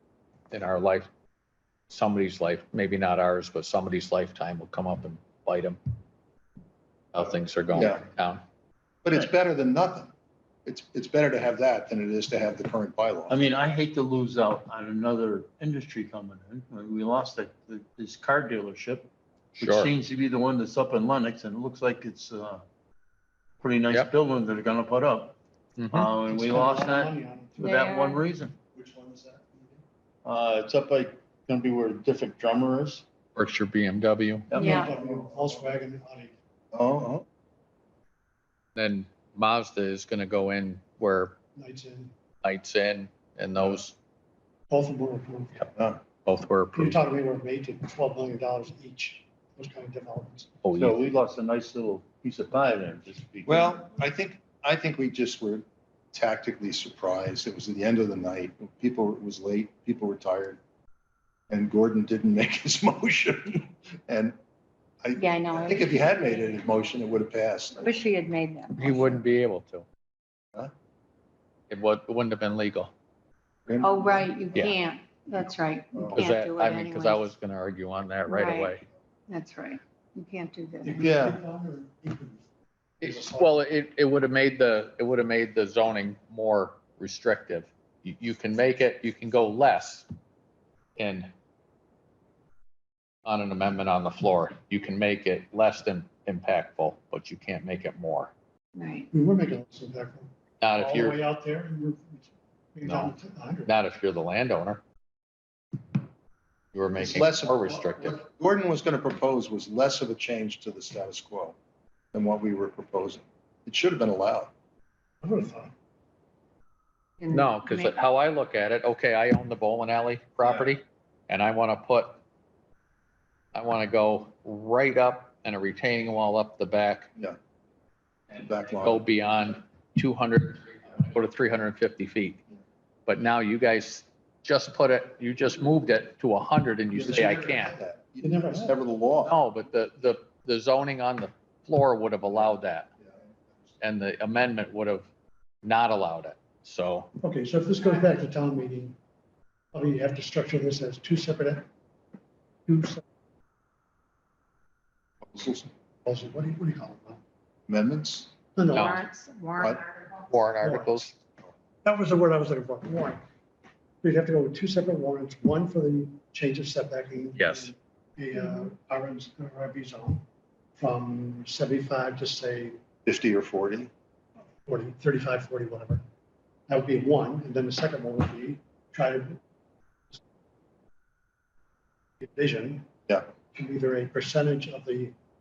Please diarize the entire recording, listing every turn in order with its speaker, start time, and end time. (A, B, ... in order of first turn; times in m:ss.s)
0:00.5-0:01.1 A
0:01.9-0:05.8 A
0:07.1-0:08.4 A
0:07.7-0:08.0 B
0:09.0-0:10.1 B
0:10.6-0:13.4 B
0:13.3-0:22.6 C
0:19.6-0:19.9 A
0:23.6-0:25.4 C
0:25.8-0:26.1 A
0:25.9-0:28.6 C
0:26.2-0:27.8 D
0:27.6-0:28.2 E
0:28.8-0:29.8 B
0:30.2-0:33.0 C
0:33.4-0:34.5 A
0:34.5-0:34.8 C
0:34.5-0:34.9 E
0:34.6-0:36.3 D
0:34.7-0:35.6 B
0:36.7-0:37.2 B
0:38.8-0:41.3 A
0:41.6-0:42.1 D
0:42.4-0:43.9 A
0:44.7-0:45.7 D
0:45.8-0:46.0 B
0:46.2-0:47.0 A
0:46.7-0:50.6 D
0:50.6-0:51.0 A
0:50.7-0:53.8 C
0:53.4-1:00.6 B
1:01.5-1:04.4 B
1:05.0-1:07.9 B
1:05.2-1:06.6 E
1:07.8-1:09.2 E
1:08.8-1:09.8 A
1:11.7-1:12.9 A
1:13.7-1:14.7 B
1:13.8-1:17.3 E
1:15.9-1:16.2 B
1:16.1-1:18.8 A
1:18.3-1:18.7 E
1:19.3-1:21.0 E
1:20.8-1:22.5 D
1:21.0-1:21.4 B
1:23.0-1:23.5 D
1:23.0-1:30.0 A
1:31.0-1:31.3 A
1:33.2-1:38.3 A
1:38.7-1:39.1 E
1:39.1-1:43.7 D
1:40.6-1:41.2 A
1:42.8-1:43.1 A
1:43.6-1:44.8 A
1:46.7-1:48.2 A
1:47.0-1:51.6 B
1:52.1-1:54.5 B
1:55.2-1:55.7 D
1:57.2-1:58.0 E
1:57.3-2:02.2 A
2:00.4-2:00.7 B
2:03.5-2:07.1 A
2:08.3-2:09.0 B
2:08.8-2:12.4 A
2:13.1-2:17.8 A
2:16.9-2:19.4 B
2:18.2-2:18.8 D
2:19.2-2:22.9 A
2:23.0-2:23.8 B
2:23.8-2:25.1 A
2:25.6-2:27.1 A
2:27.2-2:29.0 D
2:29.7-2:31.7 D
2:32.7-2:33.0 D
2:35.2-2:35.7 B
2:36.1-2:37.2 D
2:37.7-2:38.3 B
2:38.6-2:39.0 D
2:38.7-2:39.0 A
2:38.7-2:40.3 E
2:40.3-2:41.1 A
2:40.6-2:41.1 D
2:41.8-2:43.2 D
2:44.0-2:50.2 D
2:47.4-2:47.7 A
2:50.8-2:52.8 D
2:53.0-2:53.9 B
2:54.7-2:56.0 D
2:56.7-2:59.4 D
3:02.2-3:02.9 D
3:03.5-3:05.2 D